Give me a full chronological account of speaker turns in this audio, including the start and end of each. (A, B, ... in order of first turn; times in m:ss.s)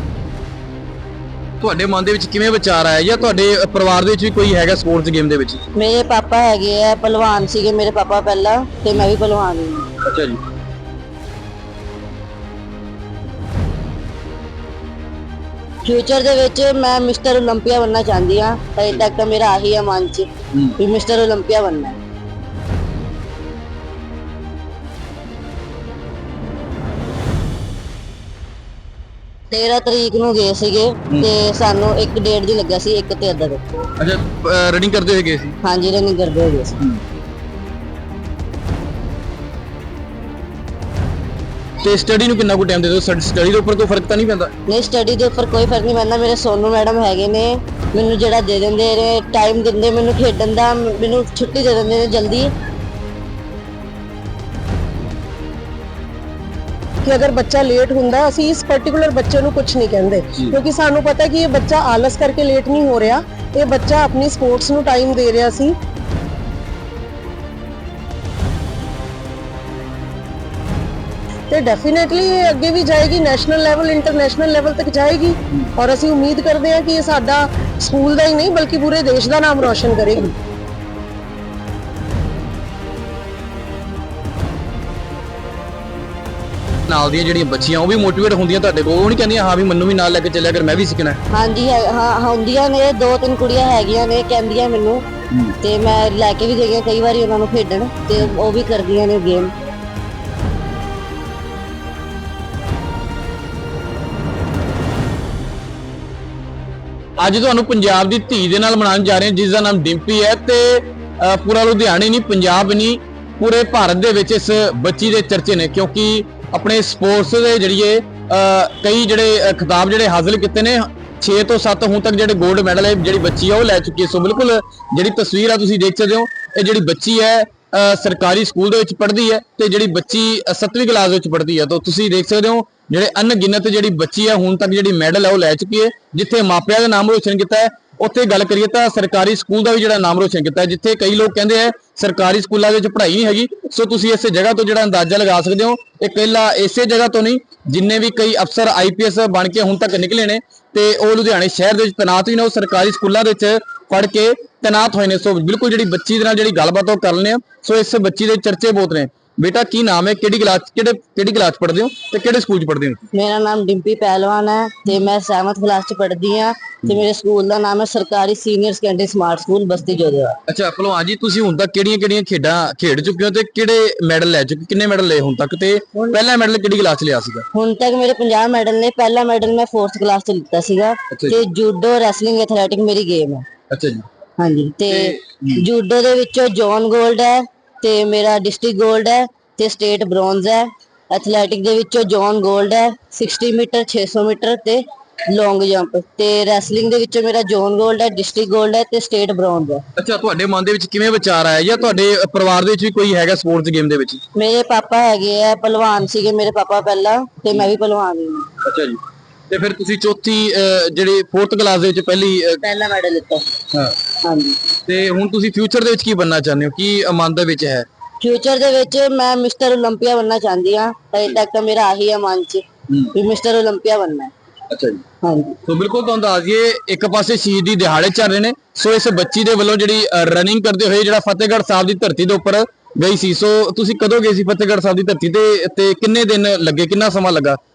0:01.6-0:05.6 A
0:05.7-0:09.9 B
0:10.0-0:10.4 A
0:15.8-0:22.0 B
0:29.5-0:33.6 B
0:34.0-0:35.6 A
0:35.6-0:36.8 B
0:41.8-0:44.5 A
0:44.7-0:52.5 B
0:57.0-1:05.7 C
1:11.5-1:20.3 C
1:26.9-1:31.2 A
1:31.3-1:35.0 B
1:35.6-1:39.5 B
1:47.2-2:43.1 A
2:43.1-2:50.4 B
2:50.5-2:57.4 A
2:57.5-3:03.4 B
3:01.1-3:01.4 A
3:03.7-3:04.0 A
3:04.4-3:19.8 B
3:04.9-3:05.6 A
3:20.0-3:24.2 A
3:24.3-3:28.5 B
3:28.6-3:32.6 A
3:32.6-3:33.5 B
3:34.2-3:34.6 B
3:34.8-3:37.9 A
3:38.2-3:44.3 B
3:44.7-3:45.0 A
3:45.2-3:45.6 B
3:45.6-3:57.6 A